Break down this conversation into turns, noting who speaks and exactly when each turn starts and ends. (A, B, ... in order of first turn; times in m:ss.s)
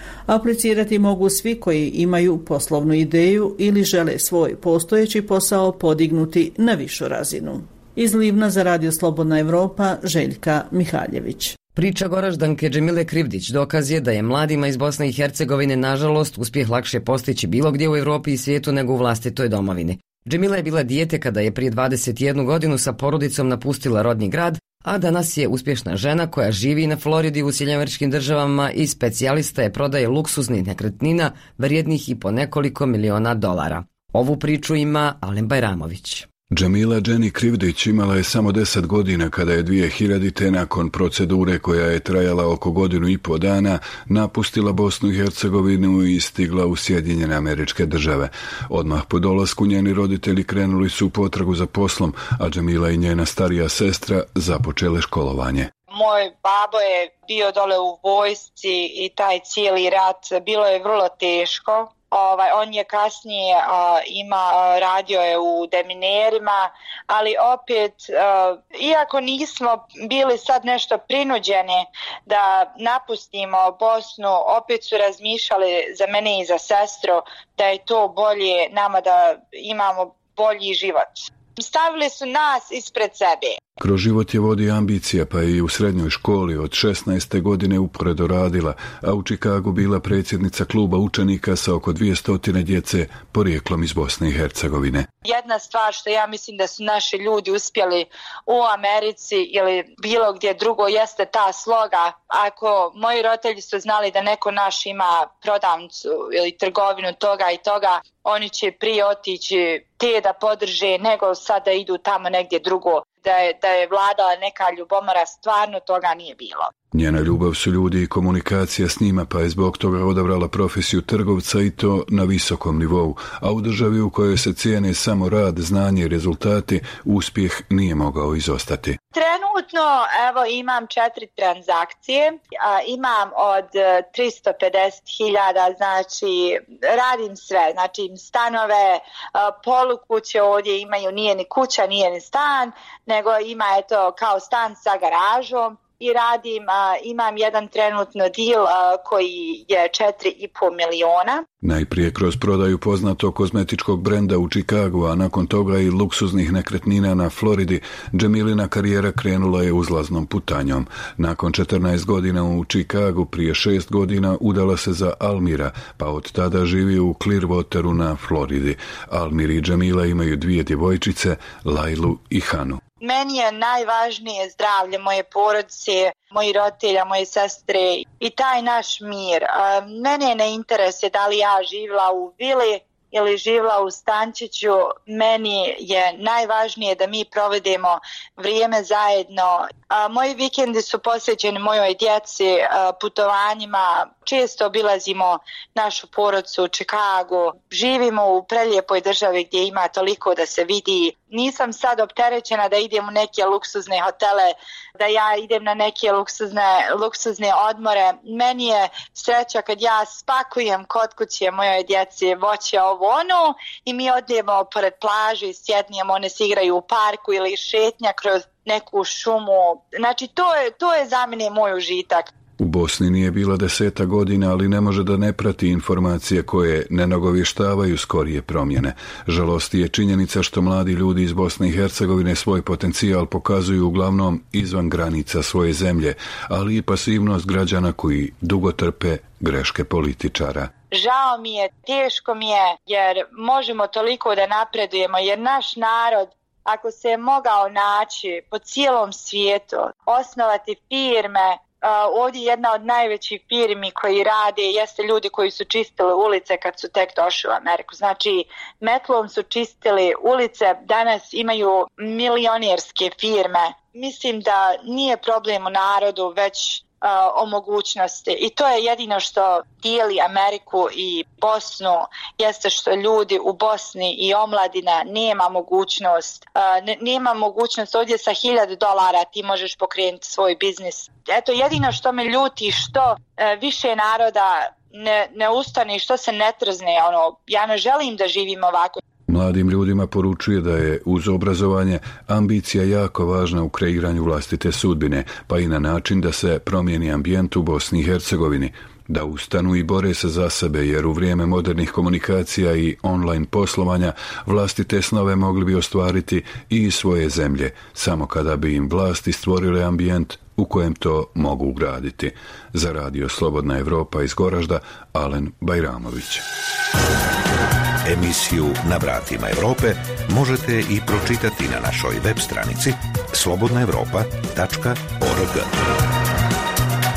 0:00.3-0:11.6 A
0:11.7-0:36.3 B
0:36.5-0:55.7 C
0:55.9-1:23.6 D
1:23.8-1:35.0 C
1:35.2-1:56.7 D
1:56.9-2:09.0 C
2:09.1-2:31.4 D
2:31.6-2:52.8 C
2:53.0-3:42.3 D
3:42.6-4:00.7 C
4:00.9-4:49.0 D
4:49.3-5:16.4 C
5:18.0-5:25.9 E